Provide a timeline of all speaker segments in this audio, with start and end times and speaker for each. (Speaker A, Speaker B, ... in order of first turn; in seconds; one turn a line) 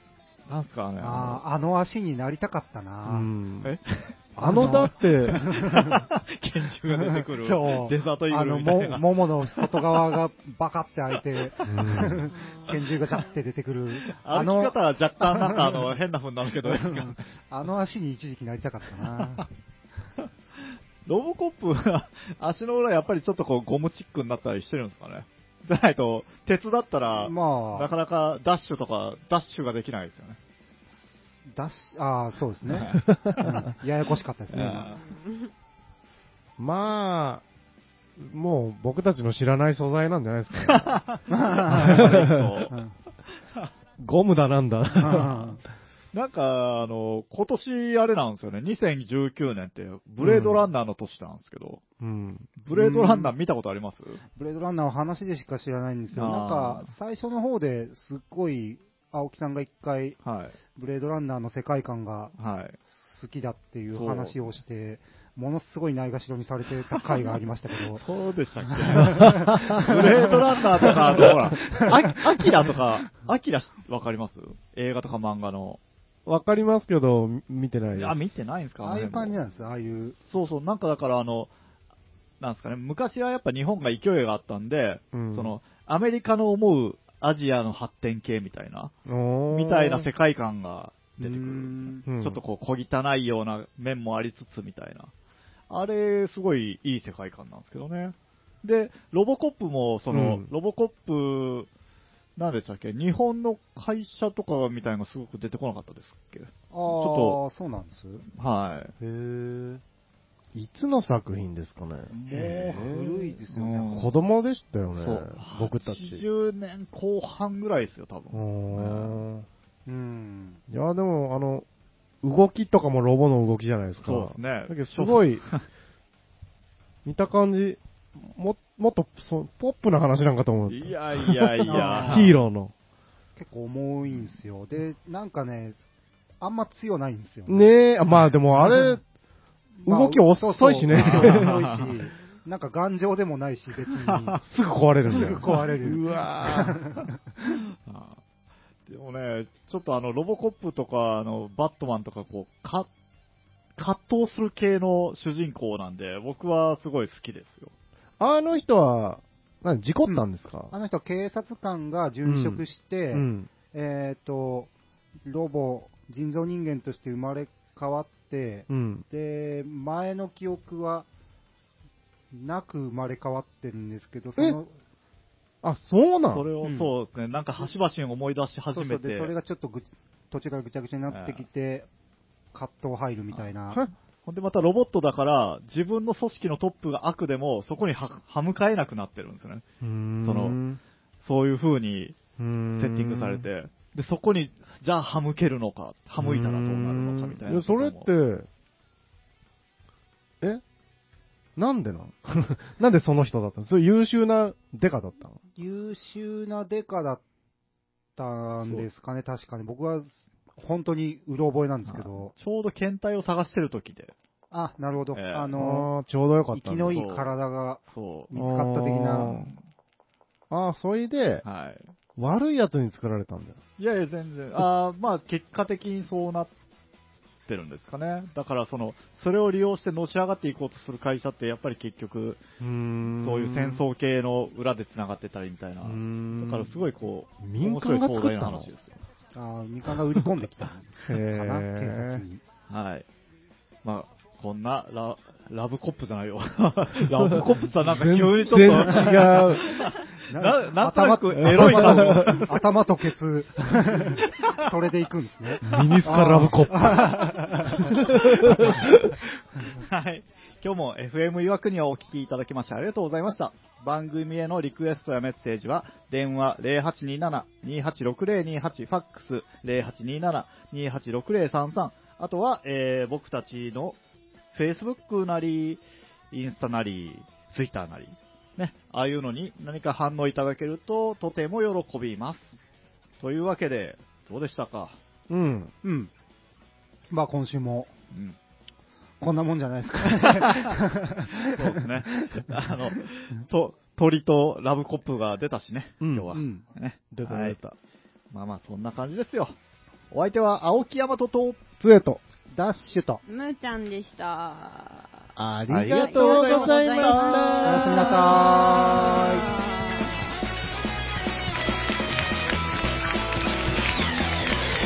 Speaker A: 0.5-1.4
Speaker B: 1.0-3.3
Speaker C: 3.0-3.8
Speaker A: 3.6-10.1
Speaker C: 4.4-5.5
Speaker B: 4.4-6.0
Speaker B: 6.9-15.9
Speaker C: 11.6-12.3
Speaker A: 14.1-17.2
Speaker B: 16.6-19.5
Speaker A: 19.2-19.4
Speaker A: 21.1-30.4
Speaker B: 27.2-27.9
Speaker B: 31.0-34.9
Speaker A: 32.7-33.6
Speaker C: 33.1-33.5
Speaker A: 34.5-35.0
Speaker C: 36.6-37.4
Speaker C: 38.2-41.0
Speaker A: 40.6-42.8
Speaker B: 41.3-42.9
Speaker C: 41.7-42.5
Speaker C: 44.0-45.6
Speaker B: 45.0-45.6
Speaker A: 46.1-51.8
Speaker C: 50.2-50.7
Speaker C: 52.0-52.5
Speaker A: 52.6-54.2
Speaker B: 52.7-53.3
Speaker B: 54.4-60.2
Speaker A: 56.1-56.9
Speaker A: 60.2-60.5
Speaker B: 60.8-68.0
Speaker A: 62.4-62.8
Speaker A: 63.9-64.6
Speaker A: 67.9-75.8
Speaker B: 68.7-71.3
Speaker C: 69.4-69.9
Speaker C: 76.3-78.2
Speaker A: 77.9-79.4
Speaker B: 78.8-80.2
Speaker A: 80.2-81.5
Speaker A: 82.4-88.9
Speaker C: 85.1-85.6
Speaker C: 89.1-90.1
Speaker A: 89.5-95.1
Speaker B: 91.2-92.1
Speaker C: 92.1-92.4
Speaker A: 95.7-101.7
Speaker C: 100.1-100.5
Speaker A: 102.4-107.4
Speaker B: 106.7-108.2
Speaker A: 108.3-108.9
Speaker B: 109.0-109.8
Speaker C: 110.5-112.9
Speaker A: 112.1-114.1
Speaker B: 112.4-114.1
Speaker C: 113.9-116.2
Speaker A: 115.0-119.2
Speaker C: 118.3-119.5
Speaker B: 119.9-120.6
Speaker C: 120.7-121.7
Speaker C: 122.2-125.5
Speaker A: 124.0-125.7
Speaker C: 127.0-132.7
Speaker A: 130.7-132.4
Speaker B: 131.6-132.3
Speaker B: 133.4-135.8
Speaker A: 134.1-134.4
Speaker B: 136.4-137.8
Speaker C: 137.5-139.0
Speaker B: 139.8-144.4
Speaker C: 139.8-141.8
Speaker A: 140.9-142.0
Speaker A: 144.0-144.4
Speaker C: 144.5-146.9
Speaker B: 145.1-147.1
Speaker A: 147.9-148.2
Speaker A: 148.9-152.9
Speaker A: 153.8-157.7
Speaker C: 158.2-160.7
Speaker B: 160.1-164.7
Speaker C: 162.2-163.5
Speaker B: 165.2-171.1
Speaker C: 168.7-169.1
Speaker B: 172.3-174.7
Speaker C: 175.6-176.5
Speaker A: 176.3-179.3
Speaker B: 176.6-176.9
Speaker B: 178.7-181.9
Speaker A: 181.1-181.4
Speaker B: 182.5-183.8
Speaker A: 184.2-189.7
Speaker C: 189.8-190.8
Speaker A: 190.2-190.6
Speaker A: 191.2-192.2
Speaker C: 192.4-193.5
Speaker A: 192.8-198.1
Speaker C: 196.2-198.5
Speaker C: 201.6-205.4
Speaker B: 205.6-207.2
Speaker B: 208.2-212.3
Speaker A: 212.3-214.1
Speaker B: 214.5-215.9
Speaker A: 215.2-215.5
Speaker C: 215.6-217.0
Speaker B: 216.5-219.4
Speaker A: 216.9-217.3
Speaker A: 217.9-218.3
Speaker C: 218.3-219.5
Speaker A: 219.2-219.6
Speaker C: 220.5-221.4
Speaker A: 221.4-221.9
Speaker C: 222.2-223.6
Speaker A: 223.8-226.5
Speaker A: 227.5-232.4
Speaker C: 232.6-233.8
Speaker A: 233.2-239.0
Speaker C: 235.8-236.8
Speaker C: 237.4-238.7
Speaker B: 239.3-242.4
Speaker C: 241.1-242.2
Speaker A: 242.7-243.1
Speaker A: 243.8-252.6
Speaker C: 247.0-249.7
Speaker B: 250.3-258.8
Speaker C: 251.4-252.5
Speaker A: 254.2-254.5
Speaker C: 255.6-259.2
Speaker A: 255.7-256.3
Speaker A: 258.5-258.8
Speaker A: 259.8-274.0
Speaker A: 274.5-282.6
Speaker A: 283.2-285.0
Speaker C: 285.3-285.7
Speaker B: 285.8-286.1
Speaker B: 287.1-287.9
Speaker A: 288.1-288.4
Speaker B: 289.2-291.6
Speaker A: 290.2-290.7
Speaker A: 291.5-297.6
Speaker C: 296.0-296.3
Speaker B: 296.3-296.6
Speaker C: 297.1-297.8
Speaker A: 298.3-299.6
Speaker A: 300.1-301.6
Speaker C: 301.8-302.2
Speaker B: 302.5-303.2
Speaker D: 303.3-310.2
Speaker C: 305.4-309.0
Speaker A: 305.7-307.6
Speaker B: 307.6-309.5